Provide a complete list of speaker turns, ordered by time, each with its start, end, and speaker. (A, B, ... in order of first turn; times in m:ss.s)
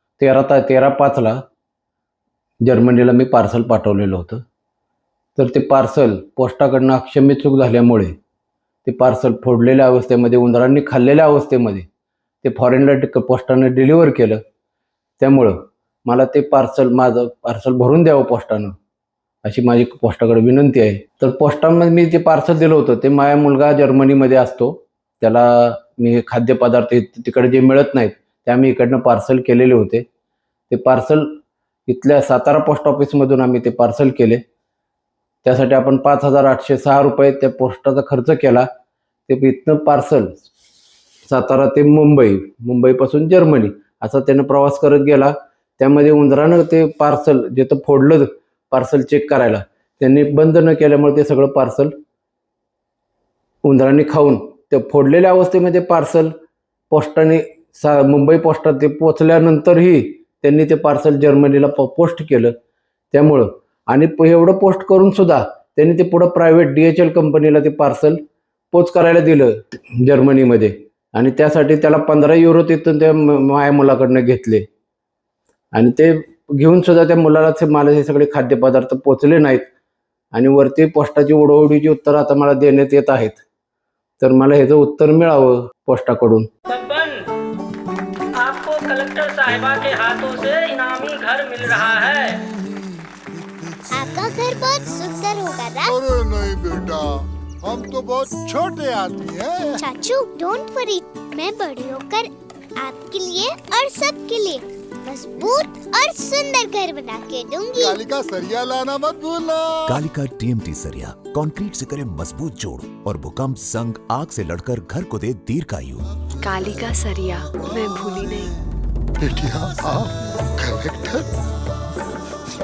0:00.2-0:01.4 A
0:02.6-0:04.4 A
0:05.4-0:08.1 A
0:08.8-0:11.8 A
0:12.4-0:14.4 A
0:15.2-0:18.7 A
0:19.4-0:30.0 A
0:30.7-0:31.3 A
0:31.9-0:34.4 A
0:35.4-0:38.7 A
0:39.3-0:40.4 A
0:41.3-0:51.9 A
0:53.6-0:56.3 A
0:56.9-1:02.5 A
1:03.1-1:08.2 A
1:08.7-1:14.6 A
1:15.7-1:19.7 A
1:20.3-1:23.4 A
1:24.2-1:26.5 A
1:26.7-1:27.2 B
1:28.4-1:32.4 B
1:33.9-1:35.9 C
1:35.8-1:39.8 D
1:39.8-1:48.0 C
1:47.8-1:50.0 D
1:49.9-1:56.1 E
1:56.4-1:58.5 F
1:59.2-2:01.3 D